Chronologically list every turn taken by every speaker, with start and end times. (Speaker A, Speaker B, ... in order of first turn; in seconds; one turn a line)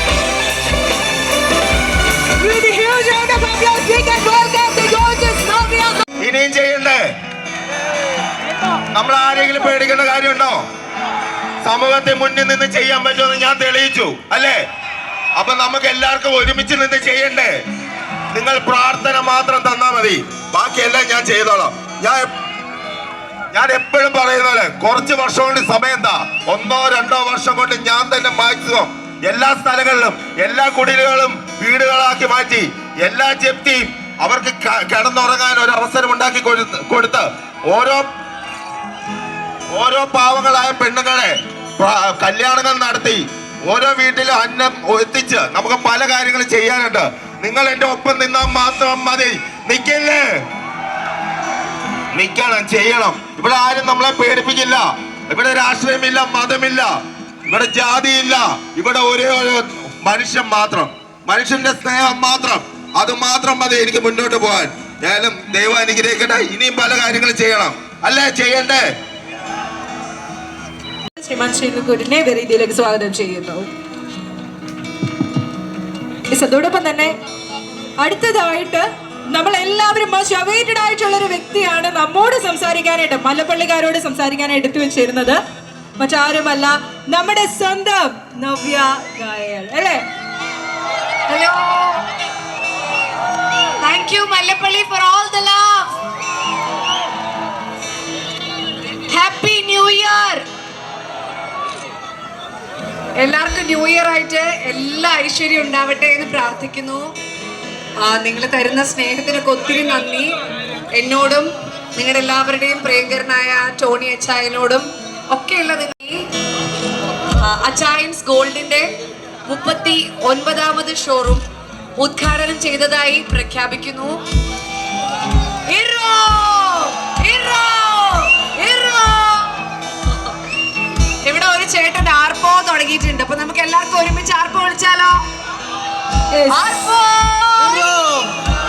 Speaker A: 2.4-6.1
Speaker B: 6.2-7.0
Speaker B: 8.9-10.6
Speaker B: 11.6-14.6
Speaker B: 15.4-17.5
Speaker B: 18.3-22.3
Speaker B: 23.5-38.0
Speaker B: 39.7-50.2
Speaker B: 52.1-56.9
Speaker B: 57.5-68.8
Speaker A: 71.2-73.7
Speaker A: 76.3-77.1
Speaker A: 78.0-85.4
Speaker A: 86.0-90.0
Speaker C: 91.3-92.1
Speaker C: 93.8-95.9
Speaker C: 99.1-100.4
Speaker C: 103.2-107.1
Speaker C: 108.0-110.3
Speaker C: 110.9-116.3
Speaker C: 117.4-118.9
Speaker C: 119.5-121.4
Speaker C: 122.0-124.2
Speaker C: 125.7-129.6
Speaker C: 131.2-135.2
Speaker A: 136.3-136.7
Speaker C: 136.5-138.3